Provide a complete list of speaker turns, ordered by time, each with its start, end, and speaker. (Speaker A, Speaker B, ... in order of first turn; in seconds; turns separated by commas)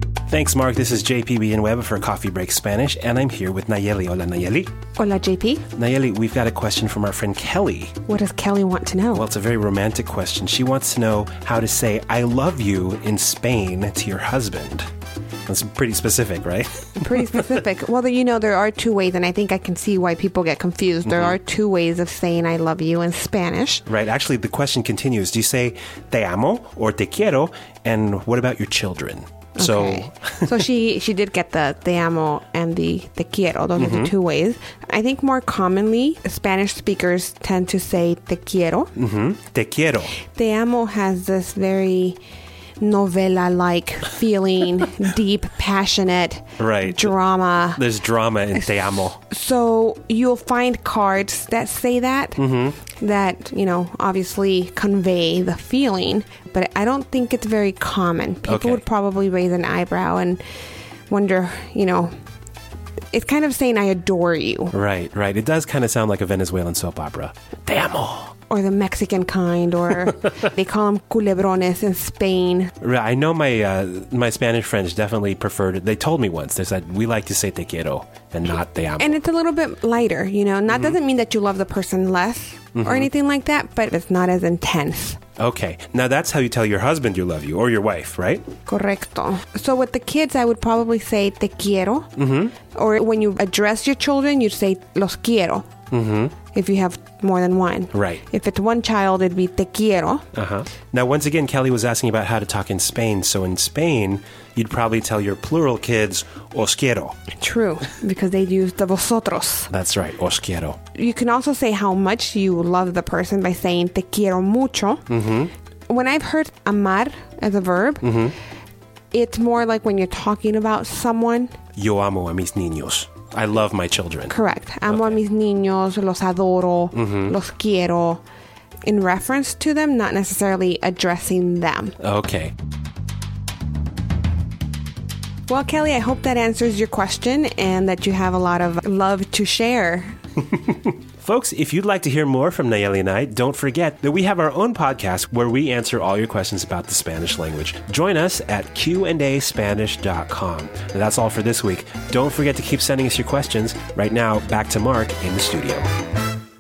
Speaker A: 0.3-4.7, Speaker B: 5.0-5.6, Speaker A: 5.8-7.9, Speaker B: 8.1-9.3, Speaker A: 9.2-14.9, Speaker A: 15.5-17.1, Speaker B: 17.0-23.9, Speaker A: 21.1-21.4, Speaker A: 23.9-30.5, Speaker B: 29.6-38.9, Speaker A: 33.8-34.1, Speaker A: 39.0-40.1, Speaker B: 40.2-42.2, Speaker B: 42.8-60.4, Speaker A: 46.6-47.1, Speaker A: 47.8-49.2, Speaker A: 52.4-52.8, Speaker A: 58.5-58.8, Speaker B: 61.1-62.1, Speaker B: 63.1-64.8, Speaker A: 64.7-68.3, Speaker B: 68.5-72.7, Speaker A: 72.8-79.2, Speaker B: 79.0-85.2, Speaker A: 82.8-83.1, Speaker A: 85.4-88.5, Speaker B: 88.7-92.1, Speaker A: 92.2-92.5, Speaker B: 92.7-95.7, Speaker A: 95.9-96.3, Speaker B: 96.5-100.2, Speaker A: 97.9-98.2, Speaker A: 100.4-107.2, Speaker B: 107.4-109.7, Speaker A: 109.7-110.8, Speaker B: 111.0-118.3, Speaker A: 115.1-115.5, Speaker A: 118.0-118.3, Speaker B: 119.1-121.5, Speaker A: 121.8-124.3, Speaker B: 124.3-128.2, Speaker A: 124.9-125.2, Speaker A: 126.9-127.3, Speaker B: 128.8-132.0, Speaker A: 132.0-132.5, Speaker B: 135.5-140.1, Speaker A: 140.7-155.9